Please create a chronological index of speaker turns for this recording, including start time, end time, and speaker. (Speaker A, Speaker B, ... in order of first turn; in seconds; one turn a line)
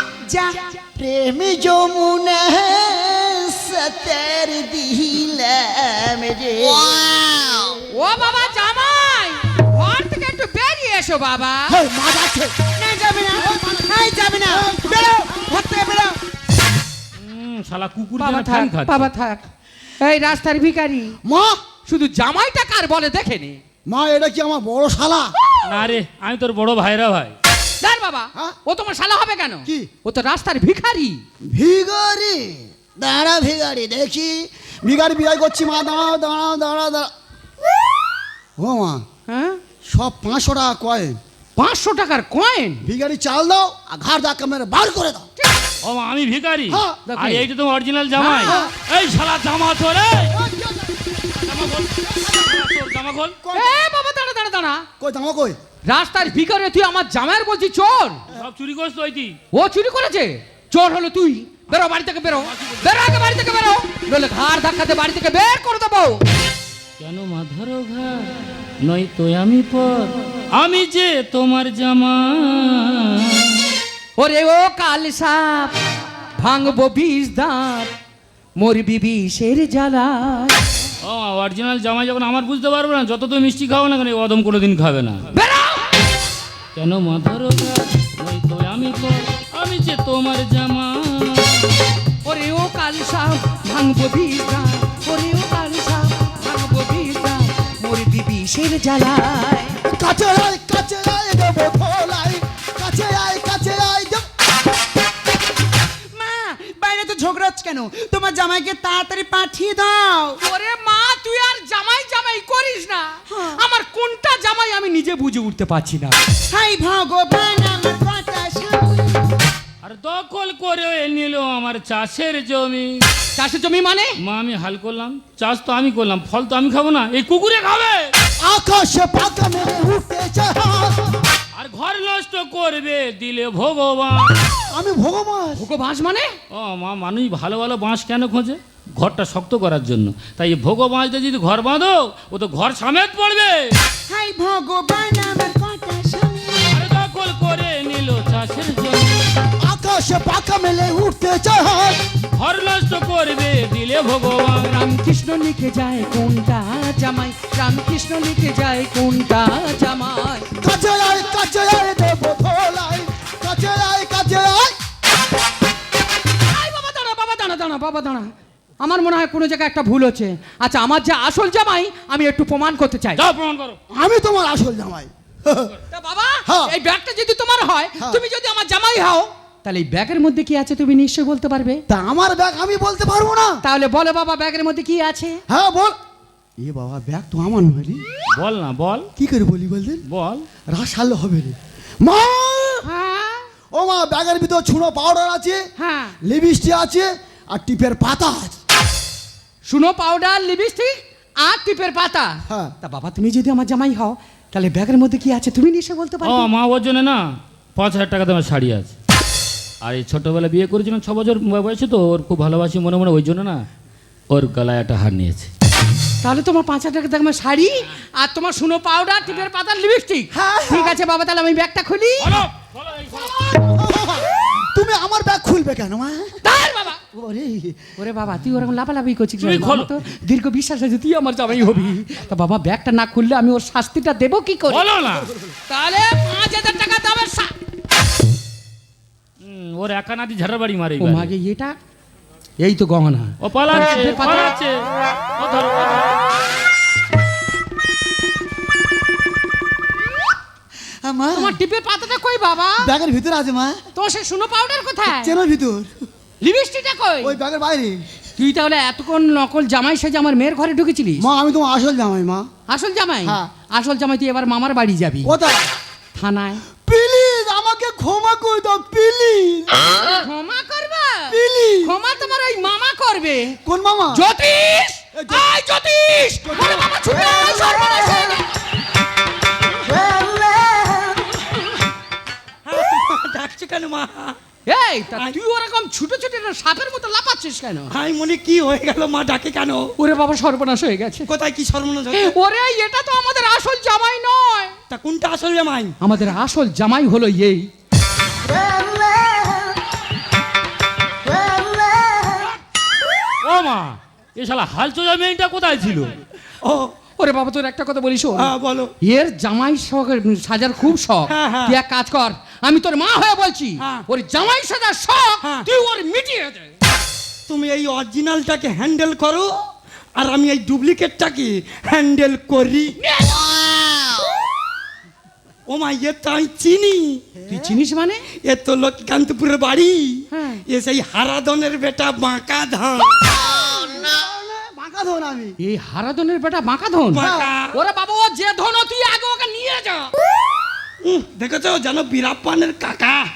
Speaker A: 0.2-0.8
Speaker B: 0.9-7.8
Speaker C: 7.9-11.8
Speaker B: 11.7-12.6
Speaker A: 12.8-16.2
Speaker B: 13.3-15.4
Speaker D: 17.2-19.1
Speaker C: 18.2-19.4
Speaker C: 20.0-21.2
Speaker B: 21.2-21.6
Speaker C: 21.9-23.6
Speaker B: 23.9-25.3
Speaker D: 25.6-27.3
Speaker C: 27.8-31.2
Speaker B: 31.5-37.1
Speaker B: 38.6-39.0
Speaker C: 39.3-39.6
Speaker B: 39.9-41.2
Speaker C: 41.6-42.8
Speaker B: 42.8-45.3
Speaker C: 45.4-45.7
Speaker D: 45.8-50.3
Speaker B: 46.7-47.0
Speaker C: 47.0-47.5
Speaker C: 48.2-48.7
Speaker B: 48.4-48.7
Speaker B: 50.3-51.2
Speaker D: 51.3-53.4
Speaker B: 53.4-53.8
Speaker C: 53.5-54.9
Speaker B: 55.0-55.6
Speaker C: 55.9-58.2
Speaker D: 58.3-59.4
Speaker C: 59.5-66.2
Speaker D: 62.5-62.9
Speaker D: 67.0-73.6
Speaker C: 74.2-75.8
Speaker C: 76.4-77.9
Speaker C: 78.6-80.6
Speaker D: 81.0-85.3
Speaker C: 85.3-85.9
Speaker D: 86.7-91.7
Speaker C: 92.2-99.8
Speaker B: 99.8-104.3
Speaker A: 106.1-110.4
Speaker C: 110.4-116.2
Speaker A: 113.3-113.6
Speaker A: 116.5-119.1
Speaker D: 119.8-123.0
Speaker C: 123.4-124.2
Speaker D: 124.2-128.1
Speaker B: 128.4-131.2
Speaker D: 131.6-134.3
Speaker B: 134.7-135.6
Speaker C: 135.5-136.3
Speaker D: 136.5-143.7
Speaker A: 144.1-146.8
Speaker D: 146.7-149.3
Speaker B: 149.6-152.0
Speaker D: 152.3-154.8
Speaker C: 154.6-160.5
Speaker B: 160.5-164.8
Speaker C: 166.5-173.2
Speaker D: 173.2-173.8
Speaker B: 173.9-175.7
Speaker C: 175.9-181.8
Speaker B: 176.4-176.7
Speaker B: 181.9-183.6
Speaker C: 183.6-185.4
Speaker B: 185.5-186.0
Speaker B: 186.6-188.0
Speaker D: 188.4-189.1
Speaker B: 189.2-190.0
Speaker D: 190.1-190.4
Speaker B: 190.7-192.9
Speaker C: 192.8-193.5
Speaker B: 193.7-195.7
Speaker C: 195.8-196.2
Speaker B: 196.2-198.6
Speaker C: 199.7-206.5
Speaker B: 202.5-202.7
Speaker D: 206.2-208.9
Speaker D: 209.8-213.6
Speaker D: 214.3-215.5
Speaker C: 216.2-222.4
Speaker B: 220.3-221.0
Speaker D: 222.2-223.3
Speaker B: 223.4-226.4
Speaker C: 226.4-227.0
Speaker B: 227.0-227.9
Speaker C: 228.0-234.8
Speaker D: 229.4-229.9
Speaker D: 234.7-235.3
Speaker C: 235.7-237.5
Speaker D: 239.4-241.3
Speaker C: 241.0-241.8
Speaker C: 242.6-244.5
Speaker D: 243.4-244.8
Speaker D: 245.3-246.2
Speaker B: 251.0-251.6
Speaker C: 251.3-252.9
Speaker B: 252.8-253.8
Speaker C: 253.9-255.3
Speaker B: 255.1-255.9
Speaker C: 256.4-257.4
Speaker B: 257.2-258.1
Speaker C: 258.4-261.2
Speaker B: 261.2-262.5
Speaker C: 262.7-265.3
Speaker B: 265.2-265.7
Speaker C: 266.1-266.6
Speaker B: 266.8-270.1
Speaker C: 270.0-273.6
Speaker B: 271.3-271.9
Speaker B: 273.6-274.2
Speaker C: 274.1-278.4
Speaker B: 275.1-275.5
Speaker B: 276.4-278.4
Speaker E: 282.6-284.4
Speaker C: 284.7-287.9
Speaker E: 287.9-289.9
Speaker C: 290.0-291.3
Speaker E: 291.3-292.3
Speaker C: 292.1-294.7
Speaker E: 294.9-295.9
Speaker C: 296.0-297.7
Speaker D: 303.4-306.1
Speaker E: 306.6-306.9
Speaker C: 307.2-316.7
Speaker E: 308.4-308.9
Speaker E: 311.3-311.8
Speaker E: 317.5-319.5
Speaker E: 320.1-323.0
Speaker C: 323.0-323.4
Speaker B: 323.4-324.2
Speaker E: 325.7-327.2
Speaker B: 327.4-327.8
Speaker C: 327.5-328.2
Speaker E: 328.4-333.4
Speaker C: 330.3-330.6
Speaker B: 333.3-335.6
Speaker C: 335.6-340.1
Speaker E: 337.1-337.7
Speaker B: 337.2-337.5
Speaker E: 341.0-343.3